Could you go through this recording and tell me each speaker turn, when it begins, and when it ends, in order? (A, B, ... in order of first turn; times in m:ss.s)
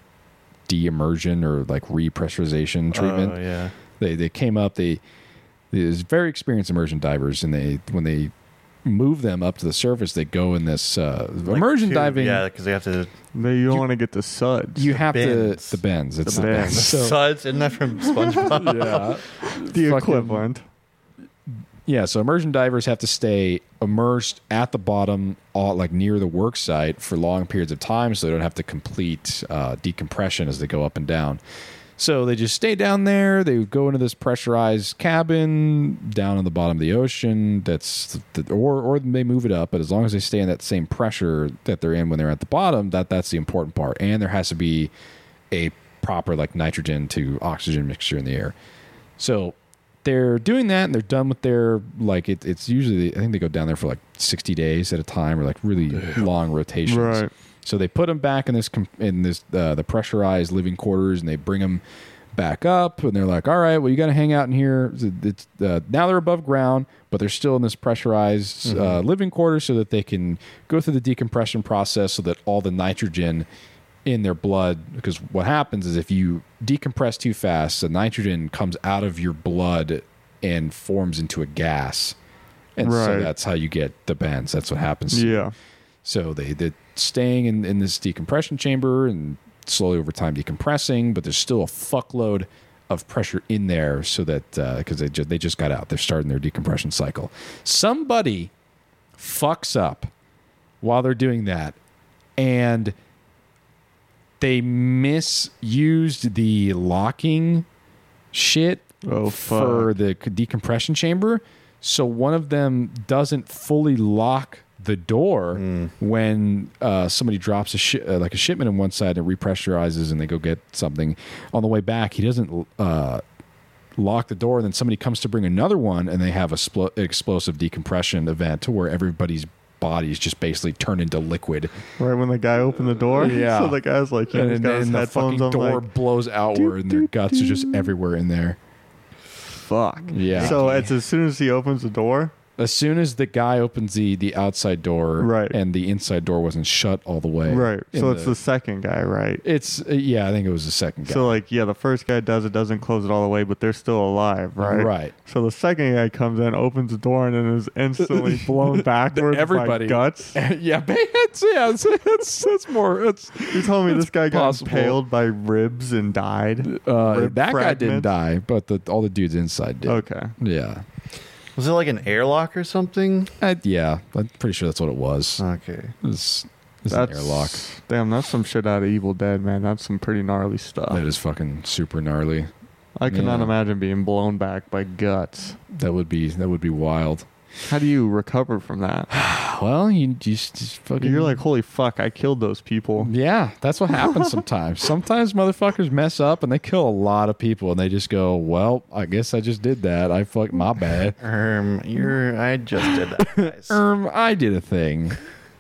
0:00.7-0:03.4 A
0:02.9-0:03.8 B
0:04.0-0:05.0 A
0:05.7-0:08.3 A
0:08.8-0:12.4 A
0:11.4-0:13.2 B
0:13.3-0:14.9 C
0:14.8-0:17.3 A
0:15.1-0:19.1 B
0:16.3-0:17.0 C
0:18.1-0:20.6 C
0:18.4-0:20.4 A
0:21.9-0:31.4 A
0:32.0-0:44.9 A
0:45.5-0:48.5 A
0:49.2-1:01.8 A
0:56.9-0:57.3 C
1:02.3-1:13.5 A
1:08.6-1:09.0 B
1:14.1-1:22.2 A
1:22.8-1:25.5 A
1:22.8-1:23.3 C
1:25.1-1:25.5 C
1:26.0-1:38.5 A
1:39.2-1:40.1 A
1:40.8-1:41.8 A
1:42.4-1:42.9 A
1:44.4-1:47.7 A
1:48.3-2:03.2 A
1:49.0-1:49.9 C
1:55.6-1:55.9 B
2:04.0-2:11.7 A
2:12.0-2:15.9 C
2:13.2-2:13.8 A
2:14.3-2:18.6 A
2:16.5-2:17.9 C
2:19.5-2:22.3 C
2:20.1-2:20.9 A
2:20.4-2:20.9 B
2:22.6-2:28.4 A
2:25.2-2:25.6 C
2:27.5-2:29.4 C
2:29.4-2:31.4 A
2:31.1-2:40.4 C
2:34.6-2:35.1 A
2:38.0-2:45.0 A
2:43.5-2:48.1 C
2:46.6-2:50.8 A
2:49.9-2:50.3 C
2:51.6-2:53.4 B
2:53.4-2:55.4 A
2:55.4-2:56.0 B
2:56.0-2:57.6 A
2:56.9-3:01.0 C
3:00.9-3:02.5 A
3:03.0-3:05.6 C
3:03.1-3:03.5 A
3:05.7-3:07.3 A
3:07.7-3:09.1 C
3:09.1-3:11.4 A
3:11.0-3:13.1 C
3:13.0-3:21.2 A
3:21.2-3:23.8 B
3:23.2-3:25.2 A